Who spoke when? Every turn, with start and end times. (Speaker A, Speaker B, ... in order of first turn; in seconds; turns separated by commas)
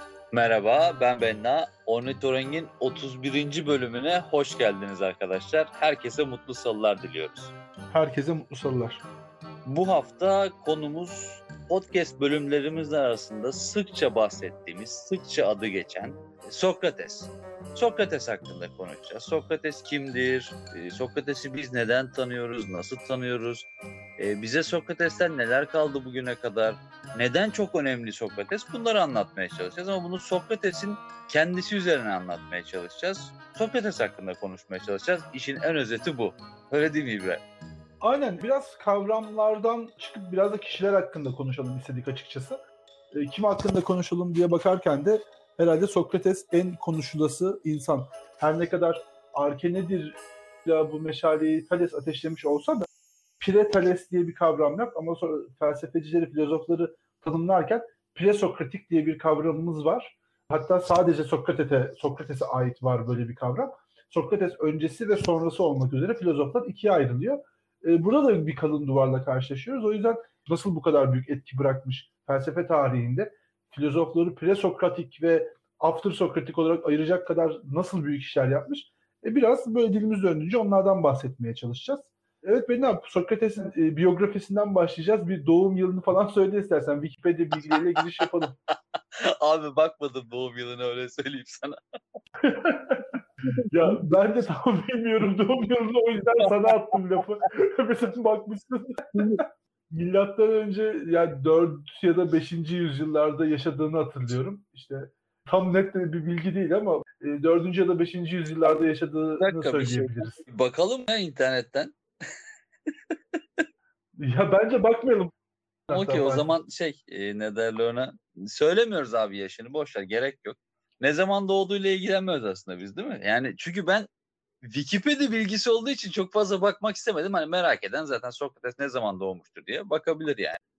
Speaker A: 0.3-7.5, Speaker B: 7.9-9.0, Speaker A: 9.6-23.6, Speaker A: 24.2-37.4, Speaker B: 38.0-42.6, Speaker B: 43.1-52.9, Speaker B: 53.4-88.6, Speaker A: 89.2-91.8, Speaker B: 92.4-93.1, Speaker B: 93.7-110.4, Speaker A: 109.4-111.9, Speaker B: 114.2-115.3, Speaker B: 115.9-116.5, Speaker A: 115.9-124.1, Speaker A: 124.6-130.6